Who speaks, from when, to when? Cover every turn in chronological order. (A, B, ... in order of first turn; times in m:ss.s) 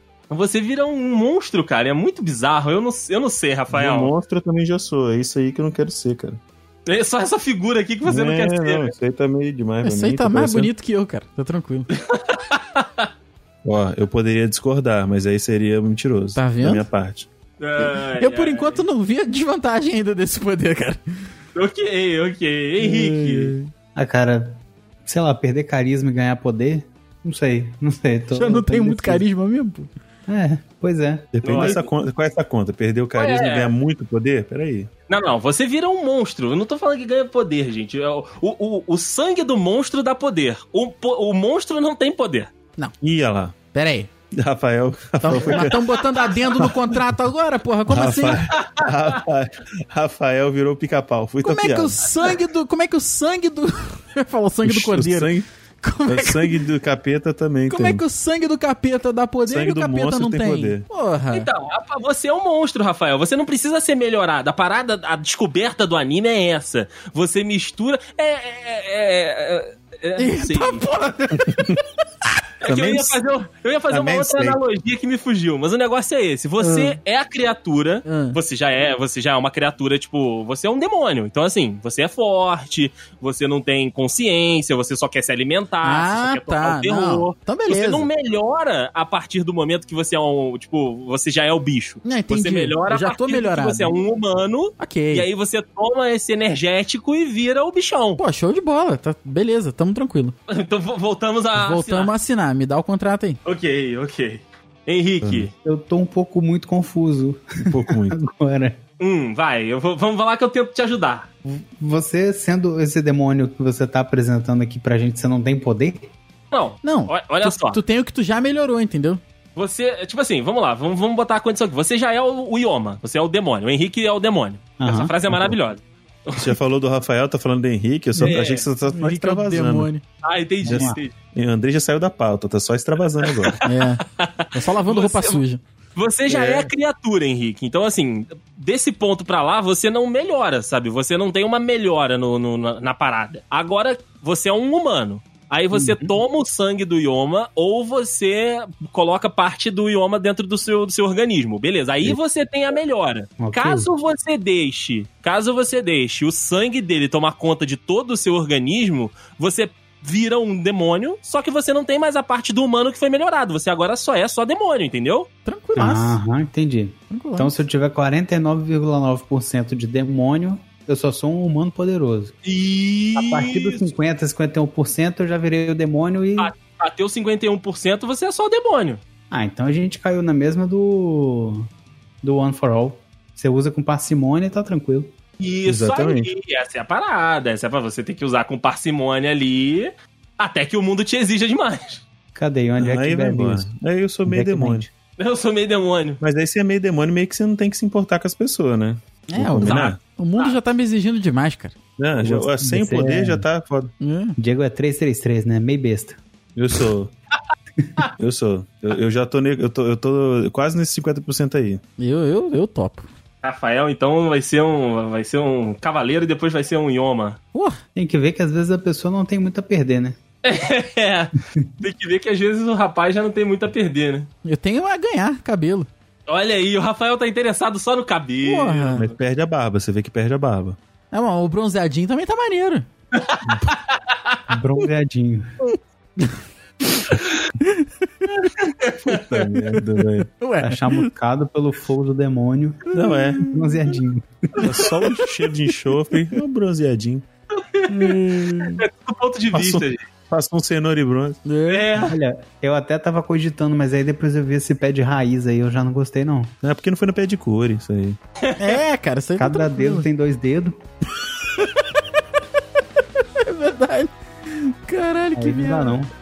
0:00.3-0:04.1 A
0:03.7-0:06.4 B
0:06.9-0:08.9 A
0:08.0-0:10.7 B
0:09.8-0:11.9 C
0:12.0-0:13.1 A
0:13.6-0:17.3 B
0:16.4-0:16.9 C
0:17.6-0:18.8 A
0:17.8-0:21.0 C
0:21.6-0:23.5 A
0:22.8-0:23.7 C
0:24.0-0:29.2 D
0:28.3-0:29.9 C
0:30.3-0:31.9 D
0:31.3-0:34.9 B
0:31.4-0:31.8 A
0:33.2-0:33.7 A
0:35.1-0:42.5 A
0:43.0-0:43.6 B
0:43.7-0:44.1 C
0:44.3-0:45.8 B
0:45.2-0:48.5 C
0:45.4-0:45.8 A
0:46.5-0:47.1 B
0:47.9-0:52.0 B
0:48.5-0:48.9 A
0:51.4-0:56.6 C
0:54.6-0:55.5 B
0:56.1-0:58.0 B
0:57.7-1:01.5 C
0:59.4-1:00.8 B
1:01.3-1:10.8 A
1:10.2-1:11.8 C
1:11.5-1:11.8 B
1:12.6-1:38.2 A
1:12.6-1:13.2 B
1:13.9-1:14.6 B
1:16.6-1:17.0 C
1:18.1-1:18.4 C
1:25.8-1:28.1 C
1:32.0-1:34.0 C
1:34.8-1:35.3 C
1:38.2-1:40.3 C
1:40.5-1:42.1 A
1:41.6-1:43.4 C
1:43.4-1:45.5 A
1:45.2-1:45.5 B
1:45.6-1:48.8 D
1:47.6-1:48.2 B
1:49.0-1:51.3 A
1:51.5-1:56.1 D
1:56.5-1:57.8 A
1:56.8-1:59.2 C
1:59.6-2:06.6 A
2:04.8-2:05.2 D
2:05.3-2:05.6 B
2:06.4-2:09.9 B
2:08.2-2:08.7 A
2:08.9-2:10.0 C
2:10.2-2:11.2 A
2:10.6-2:13.6 B
2:10.7-2:11.0 D
2:13.2-2:15.4 A
2:13.6-2:15.6 C
2:16.0-2:45.3 A
2:16.3-2:16.7 B
2:25.7-2:26.1 D
2:33.4-2:33.9 D
2:45.4-2:46.2 C
2:45.8-2:52.3 D
2:47.1-2:47.6 C
2:52.4-2:53.9 A
2:53.2-2:56.5 D
2:56.4-2:59.0 A
2:59.3-3:01.7 D
3:02.2-3:05.1 D
3:05.4-3:12.0 A
3:05.7-3:06.3 B
3:12.4-3:13.7 D
3:12.8-3:14.9 B
3:14.3-3:14.9 D
3:15.2-3:16.2 A
3:16.2-3:20.0 B
3:19.3-3:21.8 C
3:19.6-3:20.6 A
3:22.0-3:23.9 B
3:22.2-3:23.5 D
3:24.0-3:24.4 C
3:24.4-3:26.2 D
3:26.6-3:27.1 B
3:28.2-3:31.8 B
3:32.0-3:33.1 C
3:33.4-3:37.4 A
3:38.0-3:40.2 D
3:40.4-3:44.3 A
3:44.4-3:45.9 C
3:46.3-3:49.1 A
3:48.4-3:49.1 C
3:49.0-3:50.8 B
3:51.1-3:52.9 C
3:53.1-3:54.4 A
3:54.5-3:55.5 D
3:55.7-3:56.4 C
3:57.0-3:58.5 C
3:58.4-3:59.5 A
3:59.0-4:00.3 B
4:00.4-4:01.1 C
4:00.6-4:02.9 D
4:02.9-4:03.5 B
4:03.0-4:03.8 C
4:03.4-4:04.8 D
4:04.6-4:07.2 B
4:04.8-4:05.2 C
4:07.5-4:10.0 A
4:07.9-4:08.8 C
4:09.5-4:11.4 B
4:11.5-4:12.0 C
4:11.7-4:12.2 A
4:12.0-4:16.5 D
4:16.6-4:18.2 B
4:18.4-4:18.8 A
4:18.6-4:20.1 C
4:19.4-4:20.8 D
4:21.4-4:22.0 C
4:23.2-4:26.0 C
4:25.4-4:26.1 D